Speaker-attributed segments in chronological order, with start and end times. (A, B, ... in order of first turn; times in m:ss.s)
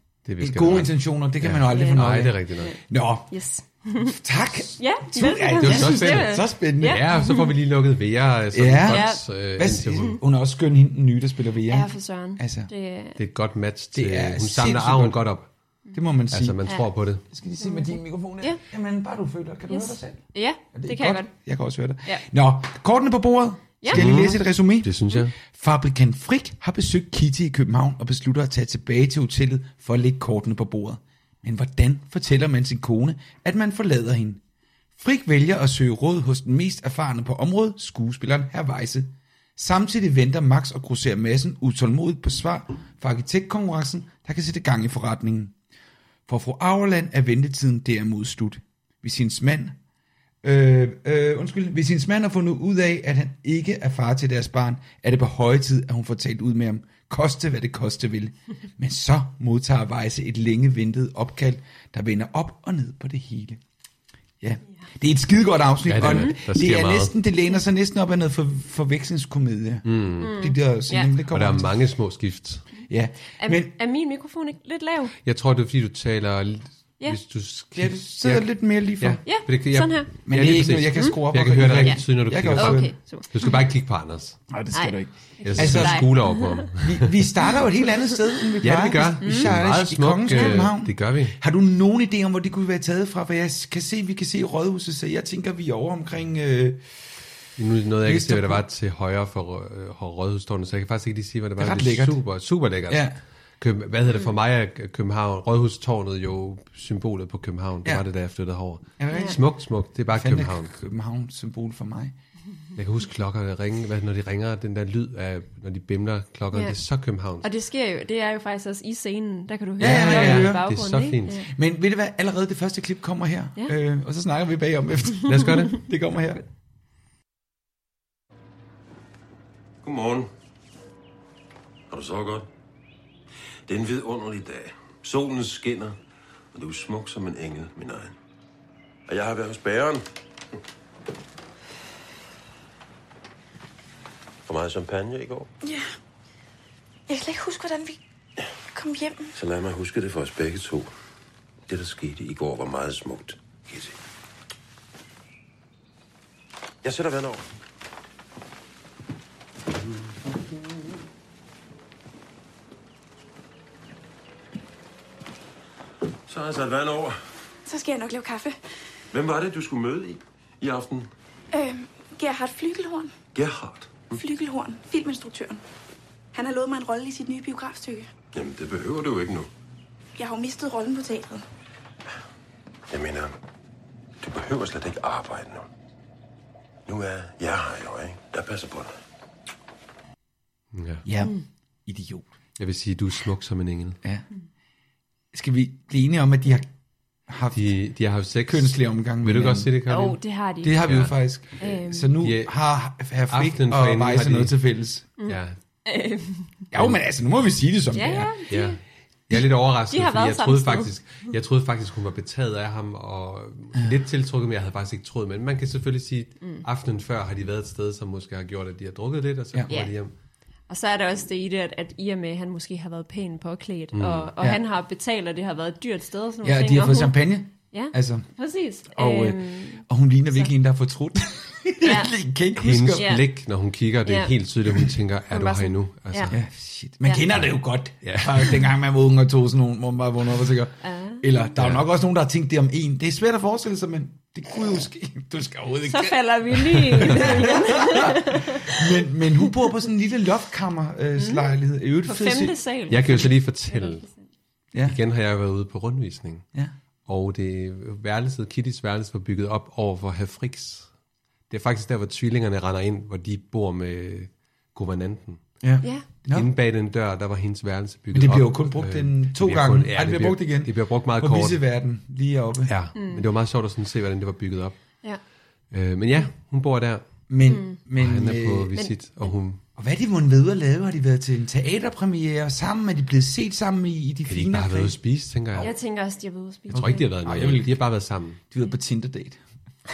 0:00.3-0:02.7 A
0:00.4-0:03.3 B
0:01.7-0:02.0 C
0:02.6-0:04.2 C
0:04.0-0:07.0 B
0:04.8-0:07.5 C
0:05.6-0:10.2 A
0:08.5-0:12.7 B
0:08.9-0:09.2 C
0:11.7-0:13.2 C
0:13.2-0:15.5 A
0:14.0-0:15.2 B
0:15.9-0:16.6 B
0:16.3-0:17.2 A
0:17.3-0:34.4 B
0:17.6-0:18.6 C
0:19.7-0:21.3 C
0:23.9-0:25.3 A
0:35.0-0:45.5 B
0:46.3-0:49.8 B
0:50.4-1:03.6 B
1:04.4-1:11.7 B
1:05.8-1:07.1 A
1:06.1-1:06.4 C
1:09.8-1:10.4 A
1:10.2-1:11.1 C
1:11.2-1:12.7 A
1:12.9-1:13.7 B
1:13.4-1:15.1 C
1:15.2-1:24.4 A
1:17.8-1:19.3 B
1:19.3-1:20.1 C
1:20.3-1:22.9 B
1:21.8-1:23.6 C
1:24.5-1:26.2 B
1:24.7-1:26.7 C
1:25.4-1:27.2 A
1:26.8-1:36.8 B
1:28.6-1:31.4 A
1:29.2-1:29.6 C
1:30.3-1:30.6 C
1:37.6-1:43.1 A
1:38.0-1:38.6 B
1:41.6-1:42.2 B
1:42.9-1:43.2 B
1:43.6-1:50.7 A
1:49.0-1:52.2 B
1:49.1-1:49.4 C
1:52.8-1:57.5 A
1:57.4-2:01.5 C
1:59.8-2:00.7 B
1:59.8-2:01.4 A
2:01.5-2:06.4 B
2:05.2-2:05.8 A
2:09.8-2:10.3 D
2:11.9-2:12.5 D
2:13.7-2:16.0 D
2:16.5-2:18.2 D
2:19.1-2:20.0 D
2:24.4-2:25.5 D
2:25.6-2:25.9 E
2:27.1-2:28.0 E
2:28.7-2:29.3 E
2:29.4-2:30.9 D
2:31.7-2:34.0 D
2:36.8-2:37.4 D
2:46.3-2:47.2 D
2:47.7-2:48.6 E
2:49.1-2:51.1 D
2:51.5-2:53.2 E
2:53.3-2:54.2 D
2:54.1-2:55.6 E
2:56.3-2:58.1 E
2:58.3-2:59.5 D
3:00.2-3:01.4 E
3:02.9-3:03.3 D
3:04.2-3:05.7 D
3:06.9-3:09.0 D
3:10.7-3:11.0 A
3:11.0-3:12.3 B
3:12.6-3:14.0 A
3:15.3-3:16.7 B
3:17.3-3:17.7 B
3:17.5-3:20.2 A
3:18.5-3:19.7 B
3:19.9-3:20.8 C
3:20.6-3:25.1 B
3:20.8-3:21.2 A
3:21.6-3:22.1 C
3:22.2-3:22.5 A
3:23.3-3:24.6 A
3:25.2-3:26.6 C
3:25.3-3:25.6 A
3:26.7-3:28.5 B
3:27.9-3:28.8 C
3:28.5-3:28.8 A
3:29.3-3:40.1 A
3:29.9-3:30.9 C
3:40.7-3:50.5 C
3:43.9-3:44.3 A
3:46.4-3:48.3 B
3:48.9-3:53.1 B
3:51.8-3:52.1 C
3:52.6-3:56.4 A
3:53.0-3:53.3 C
3:54.1-3:54.3 C
3:55.3-3:56.3 C
3:56.3-4:06.2 B
3:58.0-3:58.6 A
4:00.8-4:01.2 C
4:01.6-4:01.8 A
4:05.9-4:08.8 C
4:06.7-4:12.6 B
4:07.0-4:07.3 A
4:11.2-4:11.5 C
4:12.0-4:14.2 C
4:12.9-4:14.1 A
4:14.7-4:15.0 B
4:14.8-4:16.4 A
4:17.1-4:20.9 A
4:21.5-4:25.4 A
4:25.6-4:26.5 B
4:26.3-4:31.6 A
4:28.1-4:32.8 B
4:32.7-4:34.8 A
4:33.0-4:33.2 C
4:35.7-4:37.0 A
4:37.3-4:38.7 B
4:37.5-4:37.8 C
4:38.0-4:39.6 A
4:38.7-4:39.3 C
4:39.8-4:45.0 B
4:44.3-4:45.7 A
4:45.6-4:47.1 C
4:46.7-4:48.4 A
4:46.7-4:47.8 B
4:48.5-4:49.4 B